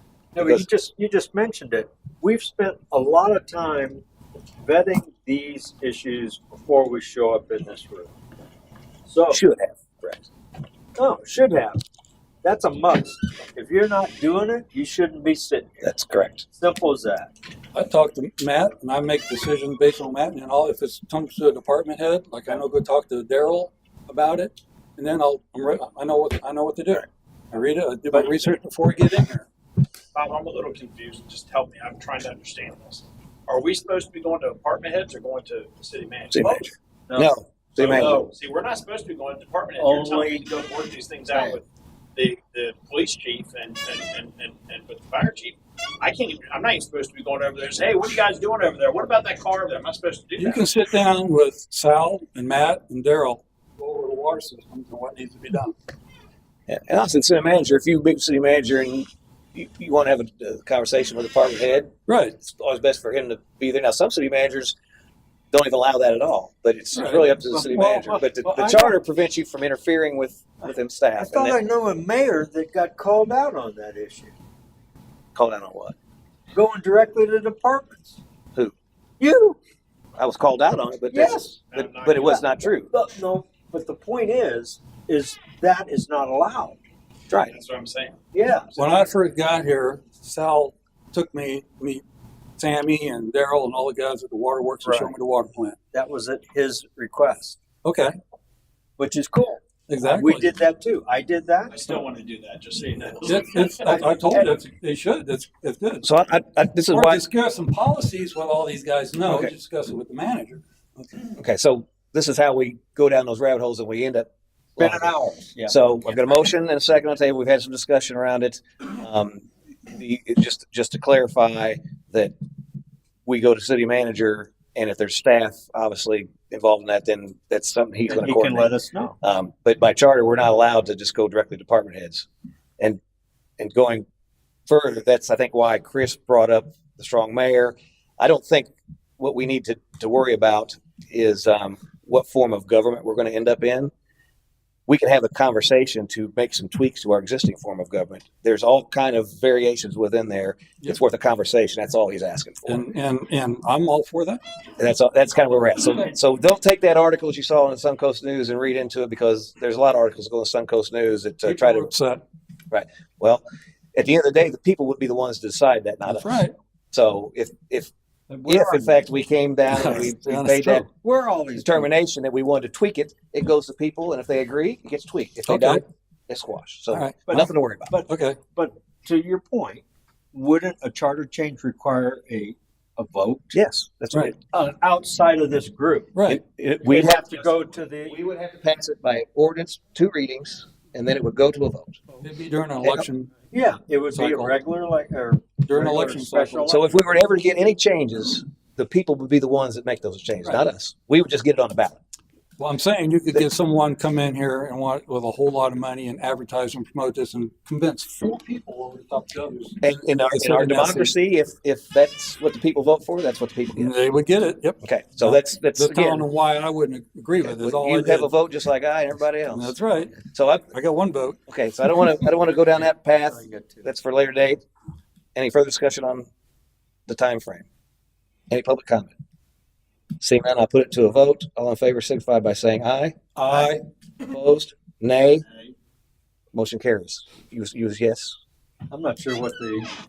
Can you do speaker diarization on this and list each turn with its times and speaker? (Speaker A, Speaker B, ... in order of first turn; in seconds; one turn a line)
Speaker A: 0.3-4.0
Speaker B: 0.4-0.7
Speaker A: 4.6-8.1
Speaker A: 9.1-9.4
Speaker B: 9.3-10.3
Speaker A: 11.0-11.8
Speaker A: 12.4-15.8
Speaker B: 15.8-16.4
Speaker A: 16.5-17.3
Speaker C: 17.7-29.5
Speaker D: 30.1-36.5
Speaker B: 36.3-38.2
Speaker A: 37.1-37.4
Speaker D: 37.8-41.6
Speaker A: 39.8-40.5
Speaker A: 41.3-41.6
Speaker D: 42.1-50.7
Speaker C: 50.4-55.8
Speaker B: 56.7-64.8
Speaker C: 62.1-62.4
Speaker B: 65.5-71.6
Speaker C: 67.0-67.4
Speaker A: 67.5-69.0
Speaker A: 70.6-74.3
Speaker B: 75.3-76.0
Speaker A: 76.5-78.2
Speaker A: 79.2-79.6
Speaker B: 80.2-82.9
Speaker A: 81.1-81.6
Speaker D: 81.7-82.5
Speaker A: 82.2-86.8
Speaker D: 87.4-88.2
Speaker A: 88.3-88.7
Speaker D: 88.7-89.0
Speaker C: 88.8-92.0
Speaker C: 92.6-95.8
Speaker A: 94.8-95.1
Speaker A: 95.9-97.6
Speaker C: 97.8-98.2
Speaker A: 99.0-101.9
Speaker C: 99.9-100.5
Speaker D: 101.7-103.9
Speaker C: 103.3-106.1
Speaker A: 103.8-104.6
Speaker B: 106.0-107.2
Speaker C: 106.9-111.3
Speaker B: 109.3-109.5
Speaker B: 111.4-115.1
Speaker A: 114.8-115.8
Speaker B: 115.7-122.3
Speaker B: 123.3-132.3
Speaker A: 128.1-129.2
Speaker B: 133.6-134.1
Speaker B: 134.7-143.9
Speaker B: 144.9-152.8
Speaker C: 152.7-154.4
Speaker B: 154.8-161.9
Speaker C: 161.4-162.2
Speaker B: 162.7-163.4
Speaker B: 163.9-167.9
Speaker C: 166.1-166.5
Speaker A: 168.3-169.0
Speaker B: 168.5-170.9
Speaker C: 169.7-170.9
Speaker A: 171.0-171.9
Speaker B: 171.6-177.9
Speaker C: 175.5-175.8
Speaker C: 176.9-177.5
Speaker A: 177.3-183.6
Speaker C: 178.1-178.4
Speaker B: 183.5-184.4
Speaker A: 184.5-186.1
Speaker C: 186.1-186.4
Speaker B: 186.3-192.0
Speaker A: 186.8-188.2
Speaker C: 192.2-193.3
Speaker A: 193.5-197.1
Speaker C: 194.1-194.5
Speaker C: 195.6-196.7
Speaker B: 196.7-202.0
Speaker C: 202.6-211.1
Speaker B: 209.8-213.9
Speaker C: 213.8-218.3
Speaker B: 214.8-216.3
Speaker B: 217.4-220.7
Speaker C: 219.5-221.4
Speaker B: 221.5-224.6
Speaker A: 223.3-223.9
Speaker B: 225.3-226.3
Speaker B: 227.1-227.7
Speaker B: 228.5-229.2
Speaker B: 230.2-233.7
Speaker C: 233.4-233.8
Speaker B: 234.3-235.4
Speaker A: 235.5-235.7
Speaker B: 236.5-238.4
Speaker A: 238.9-239.9